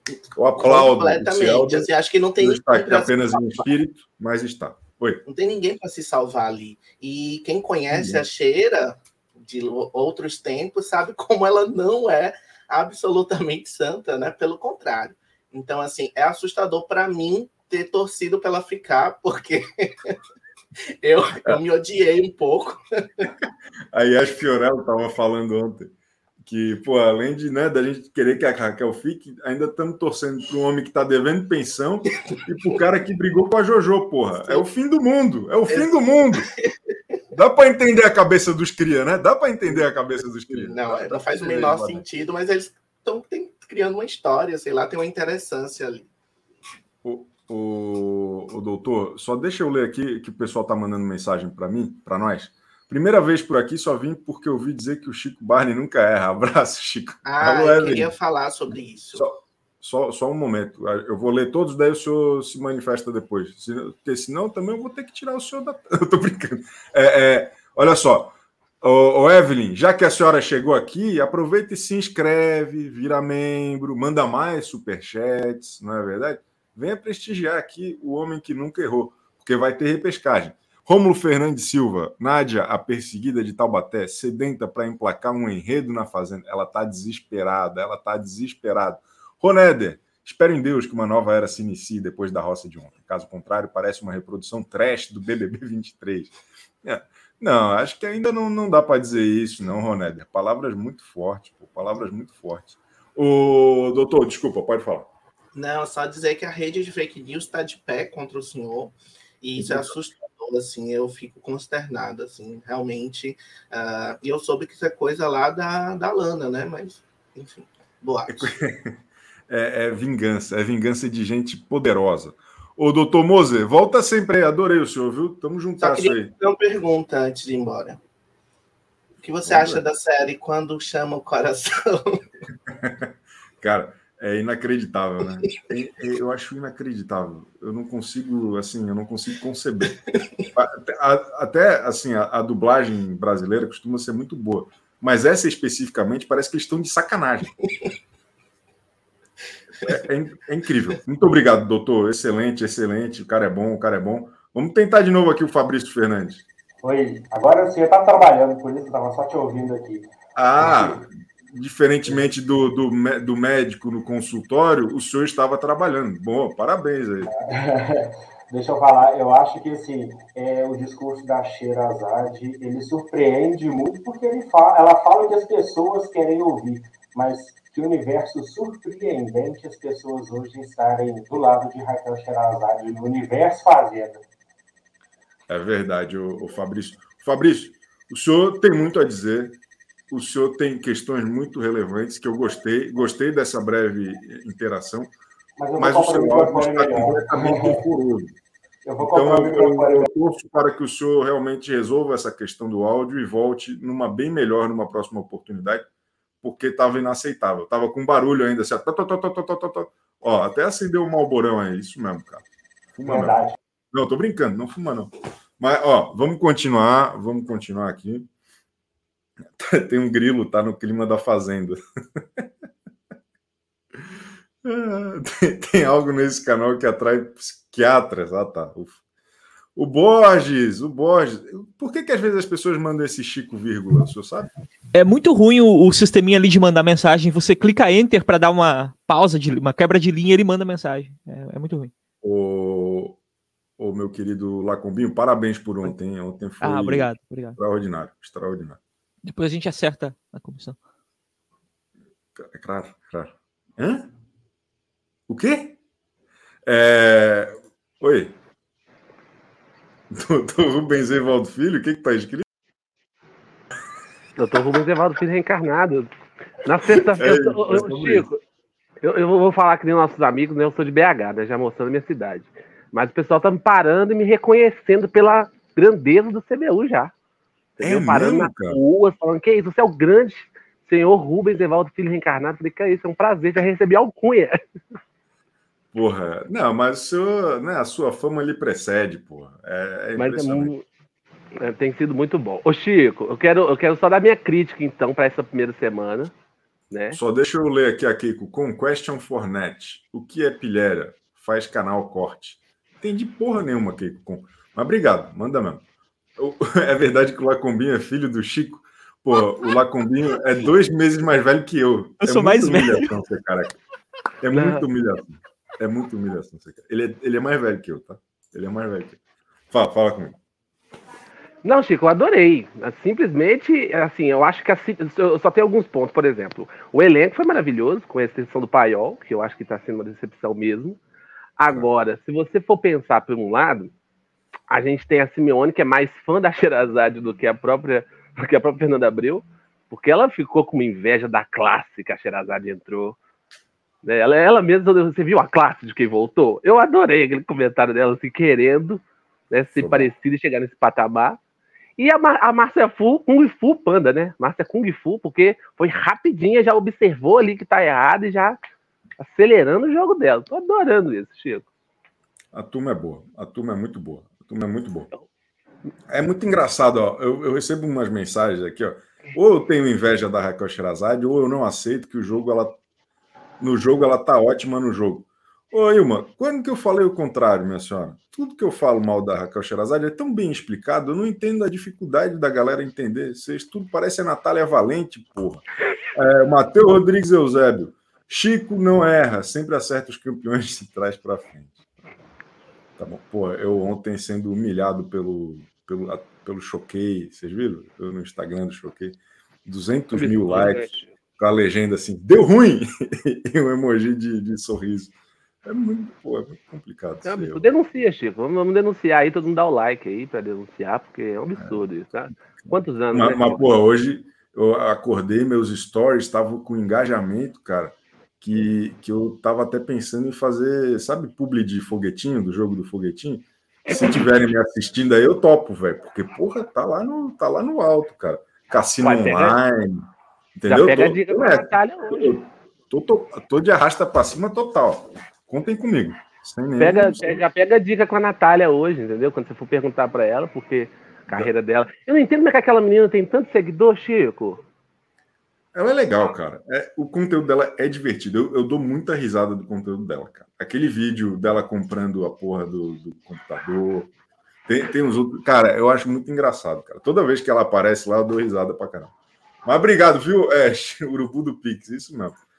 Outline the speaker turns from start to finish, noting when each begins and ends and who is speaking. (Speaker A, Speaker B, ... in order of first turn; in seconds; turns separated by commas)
Speaker A: 0.2-3.6, Speaker B: 0.4-1.9, Speaker B: 2.4-5.2, Speaker A: 5.3-20.2, Speaker B: 7.9-8.2, Speaker A: 21.0-23.3, Speaker B: 23.9-25.9, Speaker B: 26.4-36.5, Speaker B: 37.3-42.0, Speaker A: 40.6-46.1, Speaker B: 47.0-58.1, Speaker A: 57.2-59.3, Speaker B: 59.1-105.1, Speaker A: 105.5-118.5, Speaker B: 109.6-110.0, Speaker B: 118.3-119.0, Speaker B: 119.5-126.3, Speaker A: 125.8-128.0, Speaker A: 129.2-132.2, Speaker B: 129.4-129.8, Speaker B: 132.7-133.1, Speaker B: 133.6-140.0, Speaker B: 140.5-147.5, Speaker B: 149.8-156.4, Speaker C: 156.8-161.0, Speaker B: 160.3-167.3, Speaker C: 167.2-184.2, Speaker B: 185.5-189.6, Speaker B: 190.1-195.1, Speaker C: 195.6-197.8, Speaker B: 195.8-198.3, Speaker C: 198.8-200.1, Speaker B: 199.0-205.9, Speaker B: 206.4-212.4, Speaker B: 213.0-213.4, Speaker C: 213.1-213.6, Speaker B: 213.9-218.3, Speaker B: 219.5-221.8, Speaker B: 224.6-229.0, Speaker B: 229.8-234.5, Speaker D: 234.9-241.9, Speaker B: 242.2-243.2, Speaker B: 243.8-248.8, Speaker D: 246.6-247.6, Speaker D: 249.2-250.8, Speaker B: 252.4-254.1, Speaker B: 255.3-255.8, Speaker B: 256.6-258.4, Speaker B: 260.1-262.4, Speaker E: 264.4-266.1, Speaker E: 266.6-268.4, Speaker B: 267.1-268.3, Speaker E: 269.0-277.1, Speaker E: 277.8-284.6, Speaker B: 277.8-278.8, Speaker B: 285.9-290.7, Speaker E: 290.2-290.9, Speaker E: 291.6-296.3, Speaker E: 296.9-297.2, Speaker B: 297.1-305.8, Speaker B: 306.4-313.8, Speaker D: 312.2-313.1, Speaker B: 314.4-319.2, Speaker E: 314.5-314.8, Speaker B: 319.7-320.4, Speaker E: 321.6-331.0, Speaker E: 331.6-333.9, Speaker E: 334.7-343.2, Speaker E: 344.0-351.4, Speaker B: 349.8-350.1, Speaker E: 352.0-358.6, Speaker E: 359.2-361.7, Speaker B: 362.5-365.1, Speaker B: 366.1-372.8, Speaker B: 373.6-385.6, Speaker B: 386.1-391.8, Speaker B: 393.0-405.1, Speaker E: 400.1-401.1, Speaker B: 405.6-407.6, Speaker E: 407.2-413.8, Speaker B: 412.6-437.4, Speaker E: 429.0-429.6, Speaker E: 430.6-432.4, Speaker E: 436.8-444.6, Speaker B: 445.7-454.1, Speaker B: 454.7-459.1, Speaker B: 459.6-462.4